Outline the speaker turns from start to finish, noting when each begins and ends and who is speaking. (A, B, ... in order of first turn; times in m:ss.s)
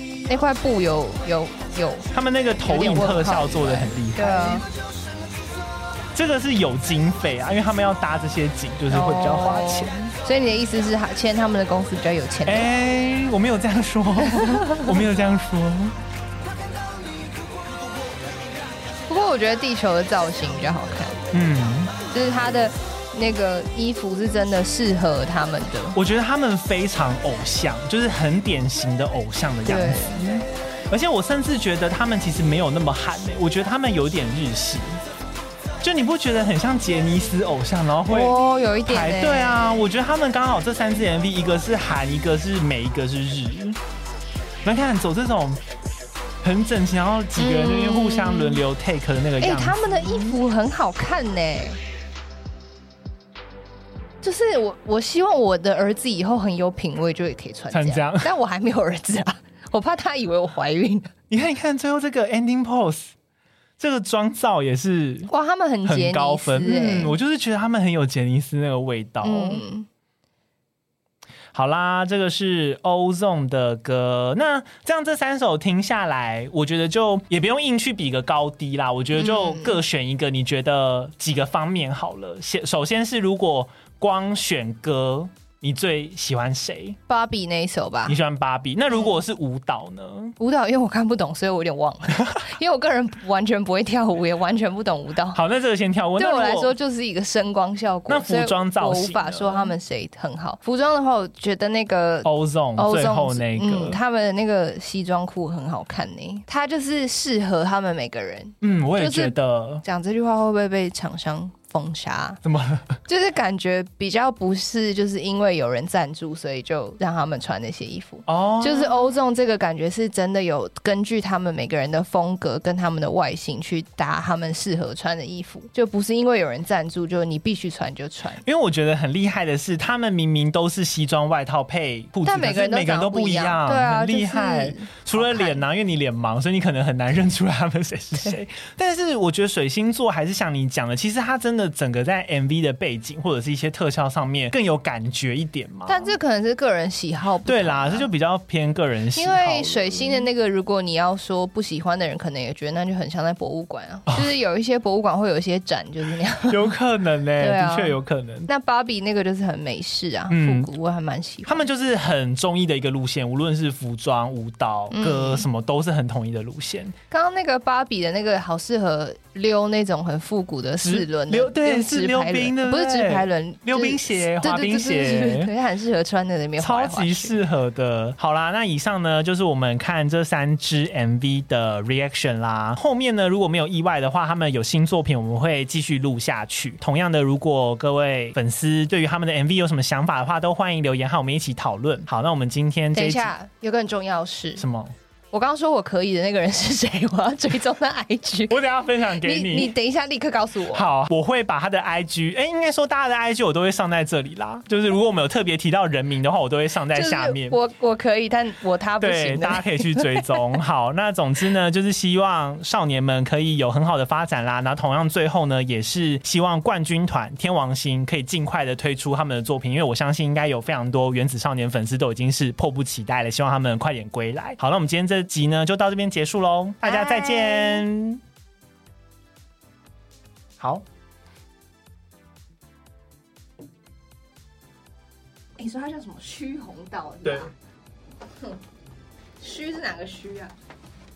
0:00.3-0:02.1 A
0:02.1-0:04.6 B
0:02.6-0:04.7 A
0:06.1-0:09.9 B
0:08.9-0:12.7 A
0:12.5-0:16.0 B
0:14.3-0:14.9 A
0:19.1-0:21.2 A
0:21.3-0:22.0 B
0:22.1-0:26.0 A
0:26.0-0:35.0 B
0:29.7-0:30.2 A
0:35.8-0:43.8 B
0:38.1-0:39.9 A
0:44.6-0:45.6 B
0:46.4-0:50.4 B
0:47.4-0:48.6 A
0:49.4-0:51.8 A
0:54.2-1:01.1 A
0:57.7-0:58.3 B
1:01.3-1:03.1 B
1:03.8-1:05.3 B
1:05.3-1:07.2 A
1:05.8-1:09.6 B
1:09.2-1:09.9 A
1:11.5-1:27.0 B
1:19.1-1:19.8 A
1:27.1-1:28.2 A
1:28.1-1:30.4 B
1:28.9-1:29.2 A
1:30.4-1:35.4 A
1:35.3-1:36.7 B
1:36.2-1:52.4 A
1:38.1-1:39.7 B
1:42.2-1:44.0 B
1:48.6-1:49.8 B
1:52.4-1:53.0 B
1:53.1-2:08.4 A
1:58.3-1:59.1 B
2:08.4-2:26.1 B
2:12.3-2:15.6 A
2:25.9-2:28.1 A
2:27.4-2:30.3 B
2:29.2-2:36.7 A
2:36.5-2:38.5 B
2:37.4-2:41.7 A
2:40.3-2:40.7 B
2:41.5-2:47.0 B
2:44.9-2:45.5 A
2:47.1-2:57.3 A
2:50.8-2:55.5 B
2:56.6-3:13.3 B
3:12.9-3:14.6 A
3:14.6-3:14.9 B
3:15.3-3:20.8 A
3:18.5-3:19.8 B
3:20.7-3:27.6 B
3:26.9-3:30.4 A
3:29.0-3:48.2 B
3:46.8-3:47.9 A
3:55.6-3:57.5 A
3:57.2-3:57.5 B
3:59.4-4:00.5 A